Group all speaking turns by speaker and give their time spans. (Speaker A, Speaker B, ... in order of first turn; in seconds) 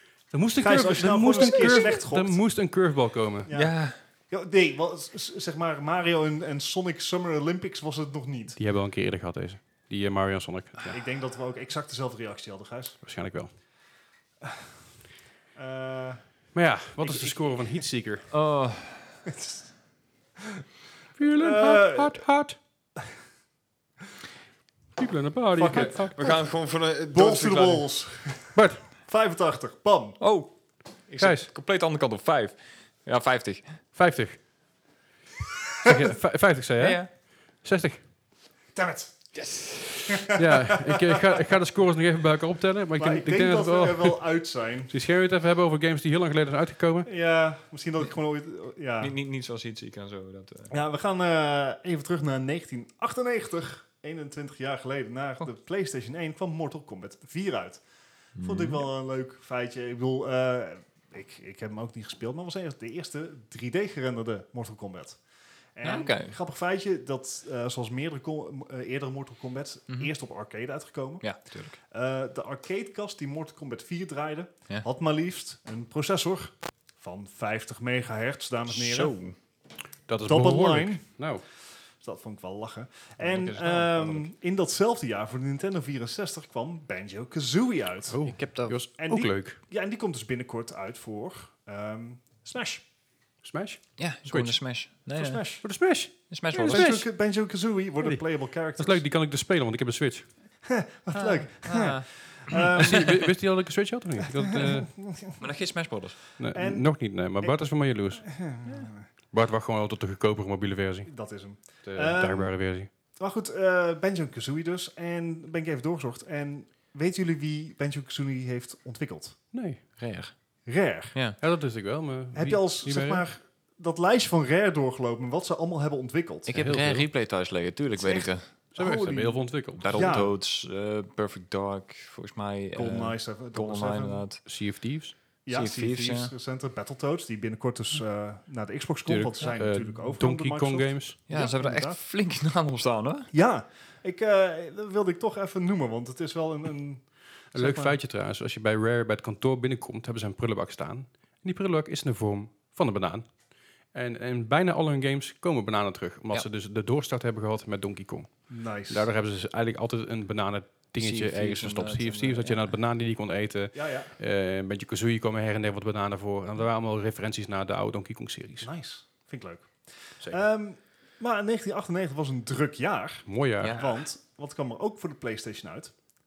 Speaker A: 0.3-3.5, 8.6-11.0, 13.0-13.5, 16.6-18.3, 21.2-22.6, 25.0-26.2, 28.6-28.9, 31.2-31.5, 34.0-34.4, 35.8-38.0, 40.2-44.2, 44.9-47.1, 80.1-81.5, 88.1-89.6, 93.4-94.6, 95.6-97.1, 98.8-100.3, 102.7-104.9, 106.4-108.3, 109.3-111.1, 111.8-112.9, 119.5-119.8, 121.4-123.3, 126.5-127.1, 128.8-130.2, 134.5-135.1, 139.1-141.2, 147.5-153.3, 153.9-158.3, 158.9-168.7, 173.3-173.8
Speaker B: 0.6-2.4, 3.5-8.6, 10.9-13.0, 15.6-16.2, 17.0-17.8, 19.3-19.7, 21.4-22.2, 25.6-26.4, 27.1-30.2, 35.8-36.1, 38.7-39.3, 40.1-41.2, 43.0-44.9, 47.0-49.1, 50.7-57.8, 58.4-65.2, 65.8-71.3, 71.9-79.2, 80.3-81.1, 82.0-88.2, 89.0-92.8, 95.2-95.7, 96.6-99.0, 100.6-103.1, 104.3-105.5, 106.4-106.9, 108.1-109.1, 111.1-112.6, 113.2-119.4, 120.7-121.2, 122.3-126.5, 128.0-130.3, 132.8-134.2, 135.5-142.0, 143.3-148.0, 158.5-159.1, 163.7-164.1, 168.6-175.9
Speaker C: 1.4-1.7, 3.5-4.0, 18.3-19.2, 25.7-27.9, 30.2-30.5, 31.1-33.8, 36.8-37.1, 39.4-40.2, 49.0-50.7, 58.4-58.8, 65.8-66.4, 71.2-71.8, 78.7-79.3, 83.2-84.3, 88.3-88.8, 94.0-95.6, 96.3-96.9, 101.2-103.2, 105.4-106.3, 120.0-120.3, 126.5-128.5, 129.8-134.4, 135.5-136.3, 141.3-143.3, 161.0-162.7, 173.6-173.9